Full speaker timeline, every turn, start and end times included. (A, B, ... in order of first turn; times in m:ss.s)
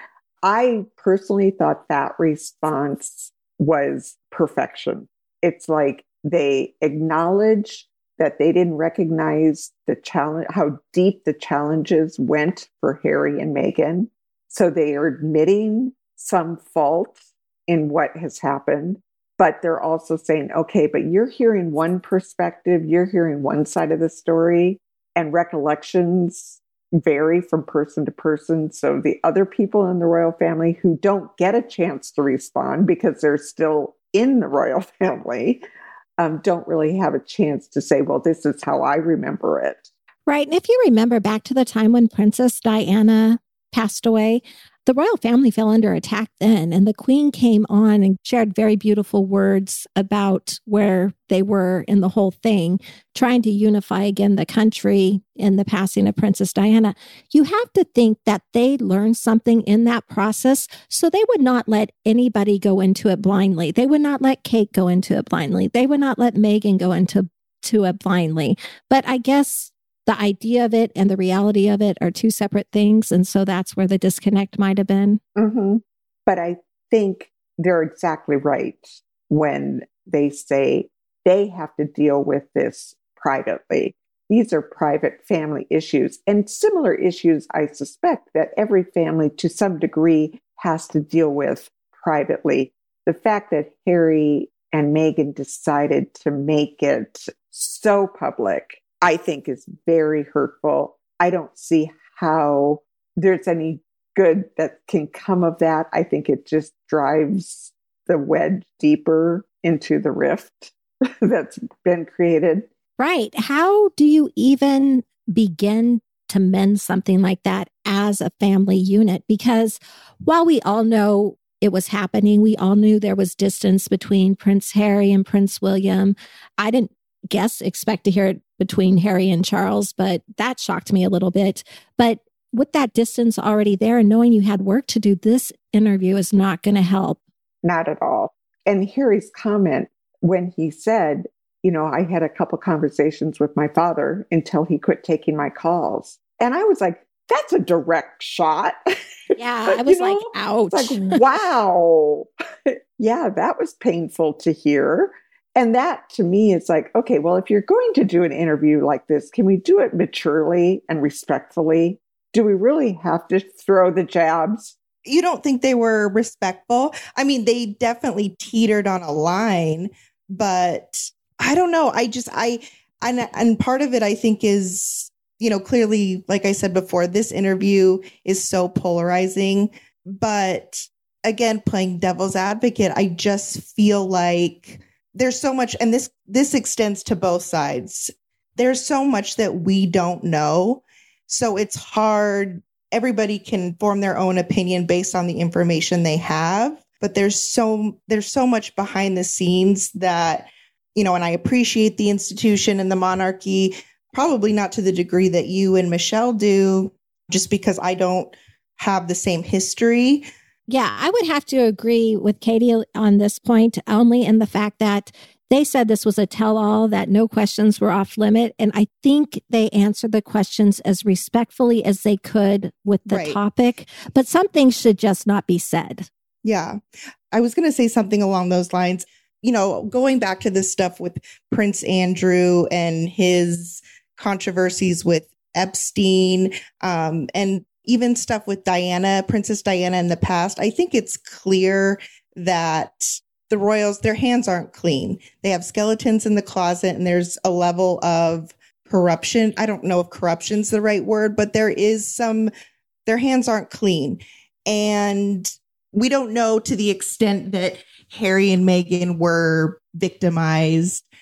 0:00.4-0:35.6 A
0:36.2-0:39.9 A
0:40.3-1:15.2 B
1:15.4-1:50.7 A
1:51.2-1:52.7 A
1:53.0-2:17.2 B
2:17.6-2:28.8 A
2:29.4-2:31.2 B
2:29.7-2:44.8 A
2:45.0-3:30.2 C
3:30.7-3:46.1 B
3:43.1-3:43.4 C
3:46.4-3:46.8 C
3:47.3-4:12.5 C
4:13.0-4:21.0 C